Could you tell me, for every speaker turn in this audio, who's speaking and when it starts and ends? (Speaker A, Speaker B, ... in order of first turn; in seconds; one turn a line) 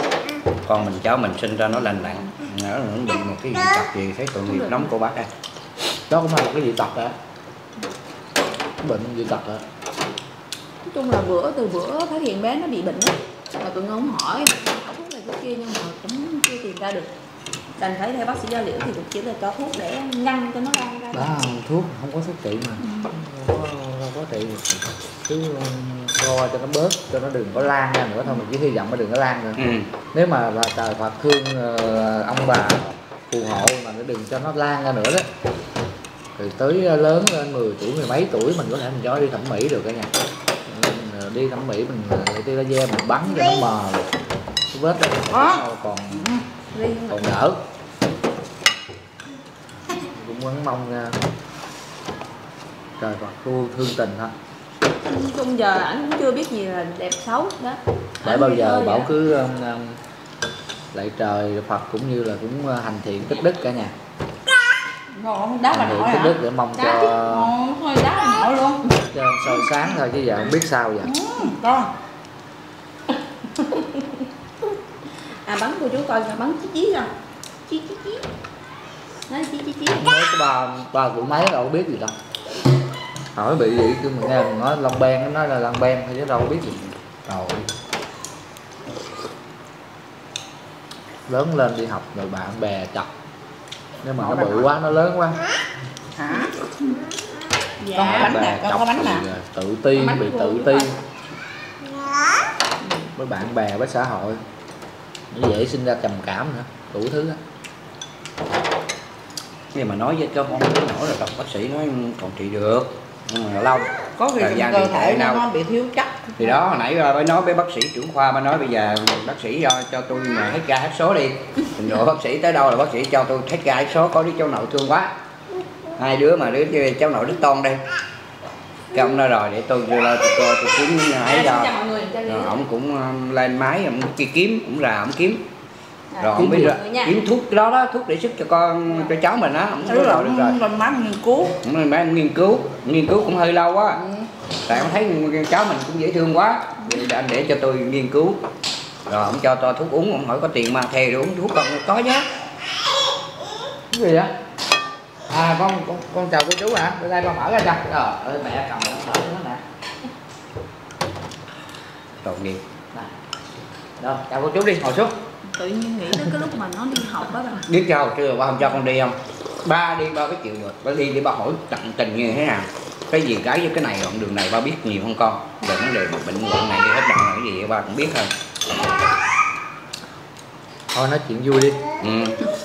Speaker A: 0.7-5.3
Speaker B: 4.5-4.9
Speaker C: 6.1-7.1
Speaker C: 8.8-9.6
Speaker B: 10.8-17.1
Speaker B: 17.8-21.5
Speaker C: 21.1-35.2
Speaker A: 29.6-29.9
Speaker C: 36.4-40.1
Speaker C: 40.7-44.1
Speaker C: 44.7-46.2
Speaker D: 45.3-45.6
Speaker D: 46.1-46.4
Speaker B: 46.7-47.3
Speaker C: 47.1-47.6
Speaker C: 49.9-51.2
Speaker C: 53.0-54.3
Speaker B: 55.0-59.1
Speaker C: 58.2-60.0
Speaker C: 60.9-63.9
Speaker D: 65.1-68.8
Speaker C: 65.7-67.5
Speaker B: 66.8-67.1
Speaker B: 67.9-68.4
Speaker C: 69.1-71.1
Speaker D: 71.0-71.9
Speaker B: 73.5-74.2
Speaker B: 75.4-77.1
Speaker B: 77.7-78.2
Speaker B: 79.3-80.1
Speaker C: 79.9-82.1
Speaker C: 83.3-87.6
Speaker C: 91.3-93.1
Speaker C: 94.0-95.4
Speaker D: 94.2-94.7
Speaker D: 96.2-96.5
Speaker B: 97.8-98.4
Speaker D: 97.9-99.3
Speaker C: 98.0-100.9
Speaker B: 99.9-101.0
Speaker B: 102.8-103.1
Speaker C: 103.2-104.4
Speaker C: 105.3-107.4
Speaker A: 109.7-115.4
Speaker D: 114.1-116.4
Speaker A: 116.4-125.1
Speaker A: 126.0-127.8
Speaker A: 128.9-131.7
Speaker B: 131.2-132.6
Speaker A: 132.2-135.4
Speaker B: 136.1-137.1
Speaker A: 136.2-140.6
Speaker D: 139.8-141.6
Speaker A: 141.6-144.0
Speaker D: 144.0-144.3
Speaker A: 144.7-148.4
Speaker A: 149.1-152.2
Speaker C: 153.9-154.3
Speaker C: 155.3-159.6
Speaker A: 162.2-162.6
Speaker C: 164.0-165.1
Speaker B: 165.5-167.7
Speaker A: 167.7-178.3
Speaker C: 180.9-181.8
Speaker A: 182.0-182.4